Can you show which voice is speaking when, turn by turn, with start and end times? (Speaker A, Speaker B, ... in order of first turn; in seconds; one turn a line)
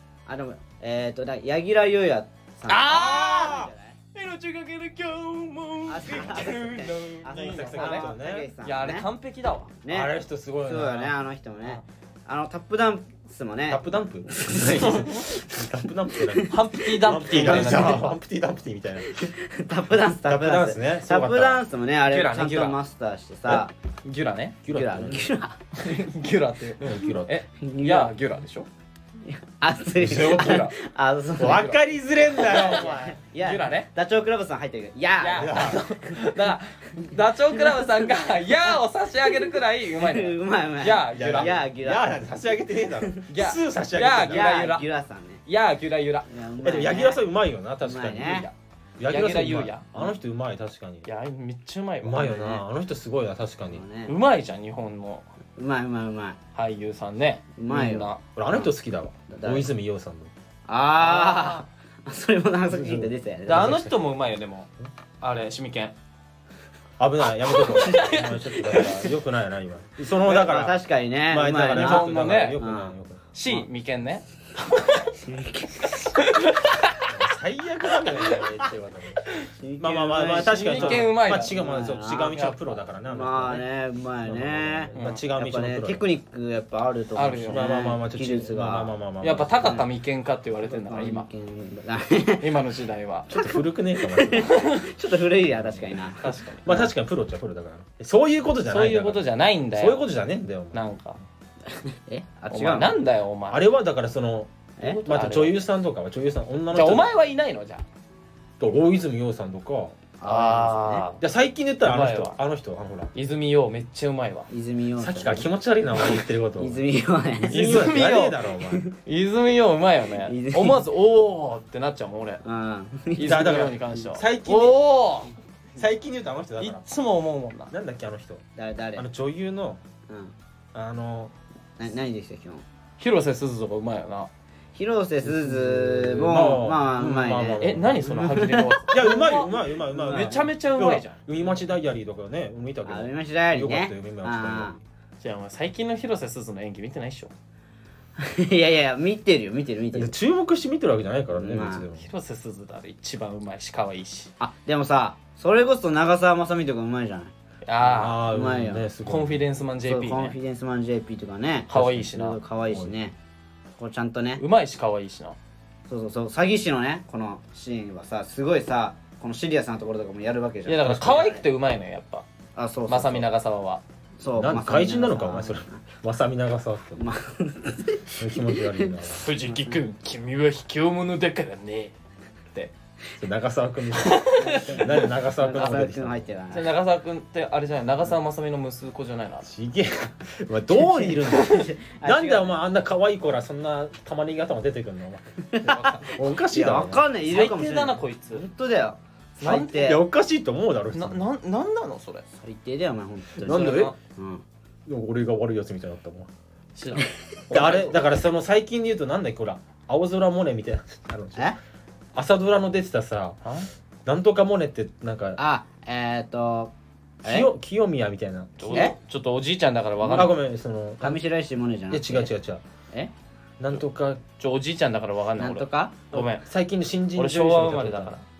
Speaker A: 0.3-4.0
Speaker B: 2.7-9.7
Speaker C: 2.9-3.6
Speaker A: 5.9-9.1
Speaker C: 7.3-8.5
Speaker A: 9.8-10.1
Speaker C: 9.9-11.2
Speaker A: 10.7-15.6
Speaker C: 13.7-19.3
Speaker B: 14.5-15.3
Speaker A: 16.1-16.8
Speaker B: 16.5-18.1
Speaker A: 17.4-17.8
Speaker A: 19.1-23.7
Speaker C: 20.2-21.6
Speaker B: 22.1-22.8
Speaker B: 24.0-24.6
Speaker C: 24.6-25.3
Speaker A: 24.7-25.6
Speaker B: 25.8-28.7
Speaker C: 26.8-27.4
Speaker A: 27.6-28.1
Speaker A: 29.2-31.7
Speaker C: 30.0-30.6
Speaker B: 30.1-30.7
Speaker C: 31.4-32.9
Speaker A: 32.4-36.1
Speaker B: 32.4-33.9
Speaker B: 35.2-41.6
Speaker C: 35.3-35.8
Speaker A: 39.5-42.1
Speaker C: 41.1-44.6
Speaker B: 43.3-44.8
Speaker A: 44.2-45.4
Speaker B: 45.5-46.3
Speaker A: 46.3-47.2
Speaker C: 46.6-48.5
Speaker A: 47.8-48.5
Speaker B: 48.2-48.5
Speaker C: 49.0-51.1
Speaker B: 49.1-49.9
Speaker B: 51.1-52.3
Speaker C: 52.0-53.8
Speaker A: 52.1-52.6
Speaker A: 53.7-54.1
Speaker B: 54.1-55.3
Speaker A: 55.6-56.4
Speaker B: 56.5-58.2
Speaker A: 57.5-58.6
Speaker C: 58.4-60.3
Speaker A: 59.3-59.7
Speaker A: 60.7-63.8
Speaker B: 61.0-61.6
Speaker C: 62.7-63.9
Speaker B: 63.5-64.7
Speaker B: 65.2-66.0
Speaker C: 67.0-73.2
Speaker B: 67.7-69.1
Speaker A: 70.2-73.0
Speaker B: 71.7-72.6
Speaker B: 73.3-75.1
Speaker A: 75.2-76.1
Speaker B: 76.0-77.1
Speaker C: 77.1-83.6
Speaker B: 78.0-78.4
Speaker A: 79.5-89.0
Speaker B: 80.3-81.5
Speaker B: 82.2-82.8
Speaker C: 84.2-86.0
Speaker B: 84.9-85.2
Speaker B: 87.2-87.7
Speaker C: 87.5-89.9
Speaker B: 89.2-91.3
Speaker A: 89.6-89.9
Speaker A: 90.7-92.5
Speaker B: 92.4-93.3
Speaker C: 93.3-94.6
Speaker A: 94.0-96.8
Speaker B: 94.5-94.8
Speaker B: 96.1-96.9
Speaker C: 96.7-100.8
Speaker B: 98.7-100.0
Speaker B: 100.7-101.2
Speaker A: 101.7-103.0
Speaker B: 102.5-103.7
Speaker C: 103.5-107.1
Speaker A: 104.8-105.0
Speaker B: 104.8-105.6
Speaker B: 106.7-107.8
Speaker C: 108.6-110.0
Speaker A: 110.2-111.0
Speaker B: 110.2-111.2
Speaker C: 111.2-113.1
Speaker B: 111.8-112.4
Speaker B: 113.1-114.5
Speaker A: 114.5-115.5
Speaker C: 115.0-116.8
Speaker A: 116.6-117.8
Speaker C: 117.5-118.9
Speaker B: 117.5-118.4
Speaker B: 119.0-122.4
Speaker A: 120.2-120.8
Speaker A: 122.4-123.4
Speaker B: 123.2-125.3
Speaker C: 123.2-124.8
Speaker C: 125.8-126.8
Speaker B: 126.6-127.7
Speaker C: 127.7-129.8
Speaker A: 128.6-129.1
Speaker A: 130.1-130.3
Speaker C: 130.7-131.3
Speaker A: 131.8-132.6
Speaker B: 133.0-134.3
Speaker A: 134.7-140.3
Speaker C: 135.2-138.2
Speaker B: 137.6-139.5
Speaker C: 138.9-144.8
Speaker B: 140.0-141.2
Speaker A: 142.8-144.8
Speaker B: 145.2-147.3
Speaker A: 148.2-150.1
Speaker C: 149.9-152.1
Speaker A: 151.3-151.8
Speaker B: 152.0-154.3
Speaker A: 154.4-157.3
Speaker B: 157.6-158.2
Speaker C: 157.8-159.4
Speaker A: 157.9-158.8
Speaker B: 159.1-160.3
Speaker A: 159.8-163.2
Speaker B: 161.7-162.4
Speaker C: 161.7-162.1
Speaker C: 162.7-162.9
Speaker A: 163.8-164.4
Speaker B: 164.4-165.4
Speaker A: 165.9-171.4
Speaker B: 170.7-172.3
Speaker C: 170.8-171.2
Speaker A: 172.5-173.3
Speaker B: 172.9-173.8
Speaker A: 174.2-175.8
Speaker C: 174.3-177.1
Speaker A: 177.0-178.9
Speaker C: 178.1-179.3
Speaker B: 179.2-181.9
Speaker C: 183.2-186.3
Speaker B: 184.0-184.9
Speaker A: 184.4-186.7
Speaker B: 186.5-189.5
Speaker C: 189.4-197.1
Speaker A: 190.7-192.5
Speaker A: 195.5-200.0
Speaker B: 195.6-196.1
Speaker B: 197.2-198.4
Speaker B: 199.4-199.9
Speaker C: 199.4-201.2
Speaker B: 200.9-202.2
Speaker A: 202.3-204.4
Speaker C: 203.4-203.9
Speaker B: 203.5-203.9
Speaker C: 204.8-206.3
Speaker B: 206.7-208.0
Speaker C: 207.5-211.5
Speaker C: 212.1-213.4
Speaker C: 214.1-215.4
Speaker A: 215.4-217.5
Speaker C: 217.2-218.9
Speaker B: 218.6-220.3
Speaker C: 220.0-221.2
Speaker A: 221.0-222.3
Speaker C: 221.9-222.6
Speaker C: 223.6-224.2
Speaker B: 224.4-226.4
Speaker A: 225.4-226.0
Speaker C: 226.1-228.1
Speaker B: 227.2-228.2